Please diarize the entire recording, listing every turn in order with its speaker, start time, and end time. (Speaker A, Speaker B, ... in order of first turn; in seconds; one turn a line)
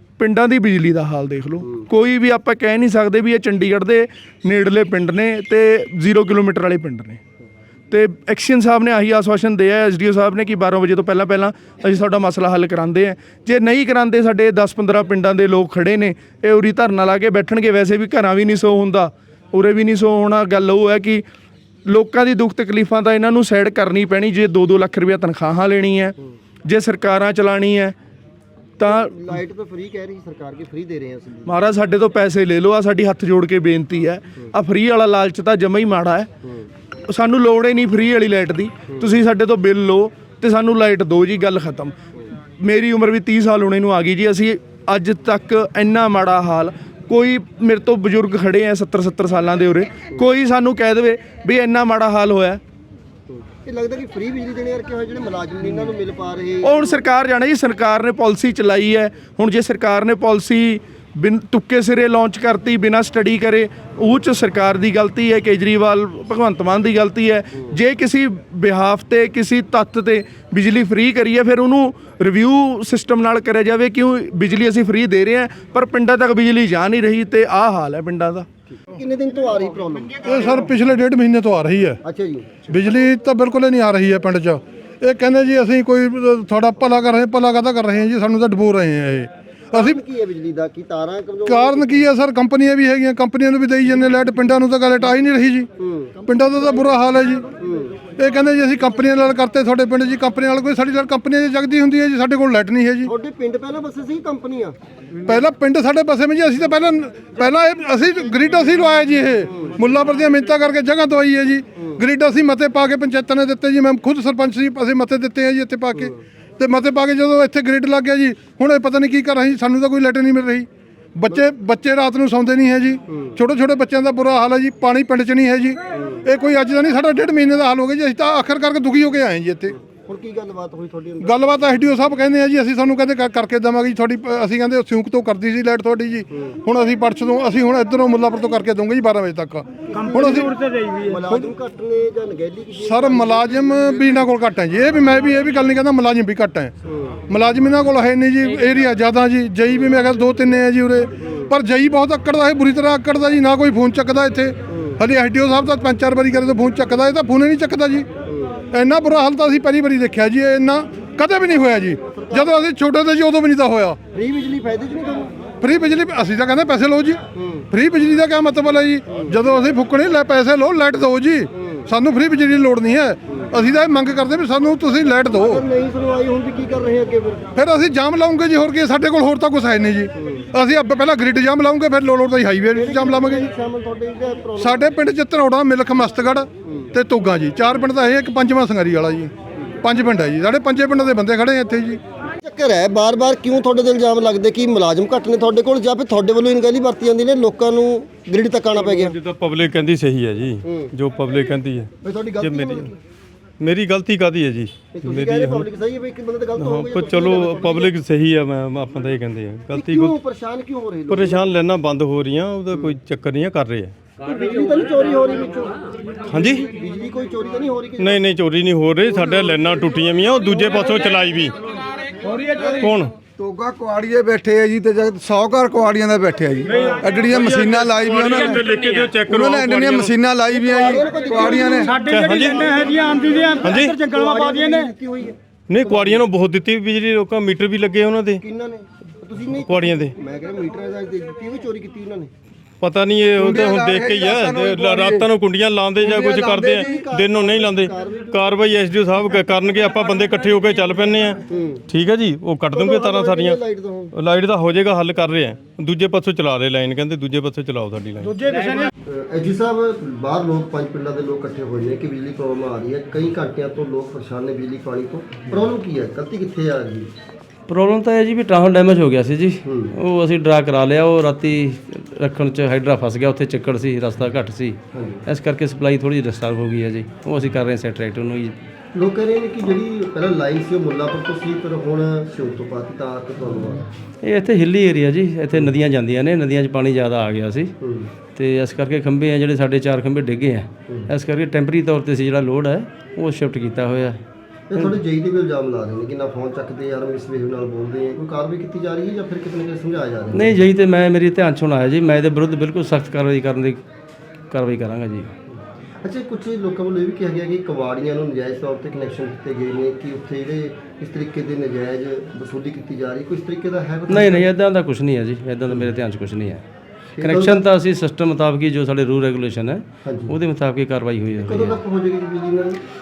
Speaker A: 0.2-7.2
Speaker A: 7.9-21.2
Speaker A: 21.9-27.9
Speaker A: 28.8-29.4
Speaker B: 28.8-31.6
Speaker A: 31.5-36.3
Speaker A: 37.1-42.0
Speaker A: 42.6-52.6
Speaker B: 53.3-57.0
Speaker A: 56.6-78.5
Speaker B: 78.7-80.3
Speaker C: 80.2-82.0
Speaker B: 82.0-82.7
Speaker C: 82.7-90.0
Speaker B: 89.7-92.1
Speaker C: 91.5-95.7
Speaker B: 95.8-96.2
Speaker C: 96.2-97.5
Speaker B: 97.5-98.1
Speaker C: 98.1-103.1
Speaker B: 103.0-104.8
Speaker C: 105.2-129.8
Speaker B: 109.5-109.8
Speaker B: 111.8-112.0
Speaker B: 123.1-123.4
Speaker B: 125.9-126.3
Speaker B: 129.8-131.4
Speaker C: 131.2-140.5
Speaker B: 136.3-136.6
Speaker B: 139.9-144.2
Speaker C: 142.8-146.7
Speaker B: 146.8-147.2
Speaker C: 147.3-158.1
Speaker B: 151.2-151.5
Speaker B: 154.7-155.0
Speaker B: 158.2-158.7
Speaker C: 158.7-164.0
Speaker B: 162.0-162.6
Speaker B: 164.1-165.5
Speaker C: 165.6-175.7
Speaker B: 167.3-167.7
Speaker B: 171.5-171.9
Speaker B: 175.3-177.5
Speaker C: 177.6-183.5
Speaker B: 180.2-180.5
Speaker B: 182.7-184.9
Speaker C: 184.6-189.3
Speaker B: 186.7-186.9
Speaker C: 189.8-192.0
Speaker B: 192.2-199.1
Speaker D: 198.8-202.9
Speaker B: 200.6-200.9
Speaker B: 202.0-203.0
Speaker D: 203.6-205.7
Speaker B: 204.9-207.9
Speaker D: 206.6-210.1
Speaker B: 209.7-211.5
Speaker D: 211.1-213.9
Speaker B: 214.2-215.8
Speaker D: 216.3-216.7
Speaker B: 216.5-218.2
Speaker D: 218.0-221.5
Speaker D: 222.8-223.1
Speaker E: 223.7-224.6
Speaker E: 225.2-225.5
Speaker D: 226.7-230.2
Speaker E: 227.2-228.5
Speaker B: 230.5-236.2
Speaker E: 231.4-232.3
Speaker D: 232.0-232.9
Speaker D: 233.6-234.0
Speaker D: 235.7-238.4
Speaker B: 238.4-242.3
Speaker D: 239.6-240.1
Speaker D: 242.8-253.6
Speaker B: 246.8-248.4
Speaker B: 251.5-251.8
Speaker B: 252.7-254.1
Speaker D: 254.1-258.4
Speaker B: 259.1-267.1
Speaker F: 267.7-278.6
Speaker B: 269.6-269.9
Speaker B: 274.9-275.2
Speaker B: 278.9-283.9
Speaker F: 284.2-287.7
Speaker B: 287.8-288.1
Speaker F: 288.4-294.2
Speaker B: 294.7-300.6
Speaker F: 294.7-295.0
Speaker F: 300.3-303.8
Speaker F: 304.5-305.3
Speaker B: 306.0-314.5
Speaker F: 314.1-316.6
Speaker B: 317.1-317.6
Speaker F: 317.2-321.8
Speaker B: 320.1-320.4
Speaker B: 321.4-322.8